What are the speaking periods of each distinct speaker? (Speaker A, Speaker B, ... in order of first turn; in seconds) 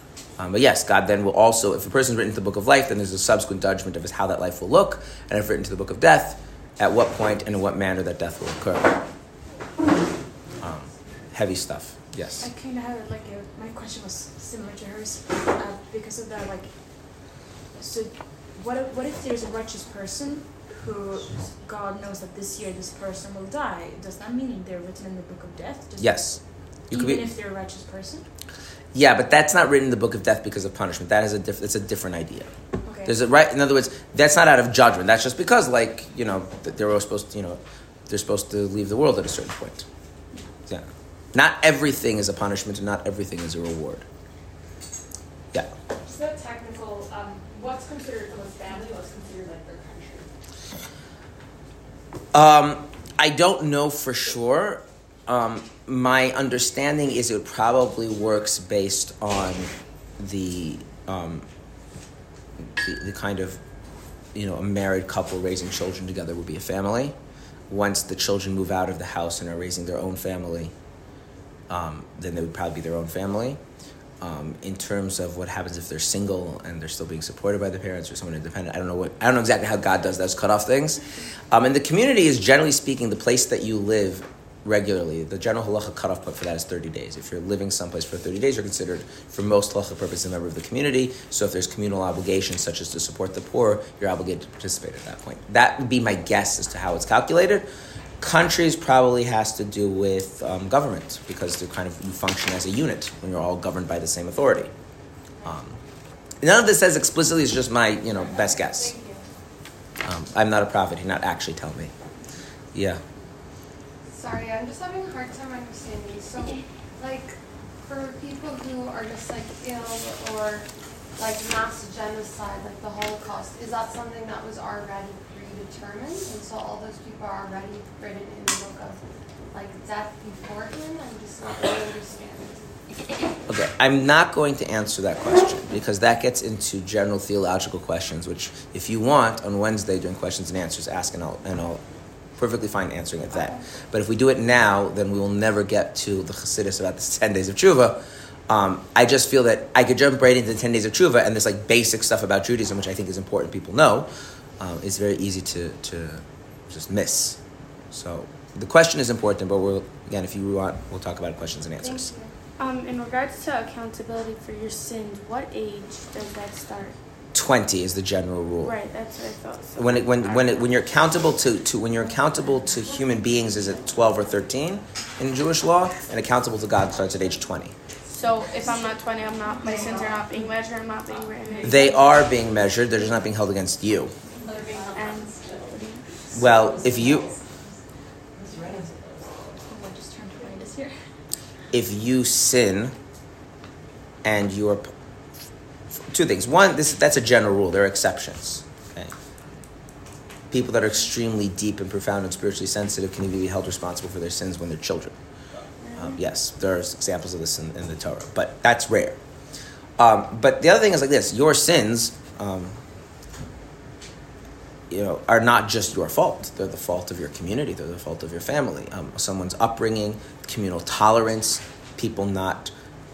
Speaker A: 0.4-9.0, 10.6-12.4, 26.0-27.2, 28.9-32.5, 33.0-39.9, 40.7-44.0, 52.3-61.4, 62.6-63.6, 64.3-67.1, 67.7-70.7, 71.7-73.6, 74.2-97.7, 98.2-104.7, 105.4-105.8, 106.4-108.9, 110.0-111.9, 112.7-113.0, 133.5-141.8, 142.4-154.1, 154.6-157.4, 157.9-162.1, 167.3-168.7, 169.8-177.7, 181.6-184.1, 186.3-187.2, 191.7-192.9, 194.2-194.9, 196.1-199.1, 200.5-205.1, 205.9-209.2, 210.0-212.8, 214.9-222.7
Speaker B: 12.4-26.4, 26.9-28.3, 32.8-33.1, 189.7-190.9
Speaker C: 46.0-50.3, 108.6-109.1, 179.7-180.2, 184.4-185.8, 186.3-187.4, 188.4-189.5
Speaker D: 114.1-129.0, 129.5-132.7, 161.8-162.3
Speaker E: 162.6-166.9, 168.6-170.6, 178.1-182.0, 184.9-186.1, 205.8-206.1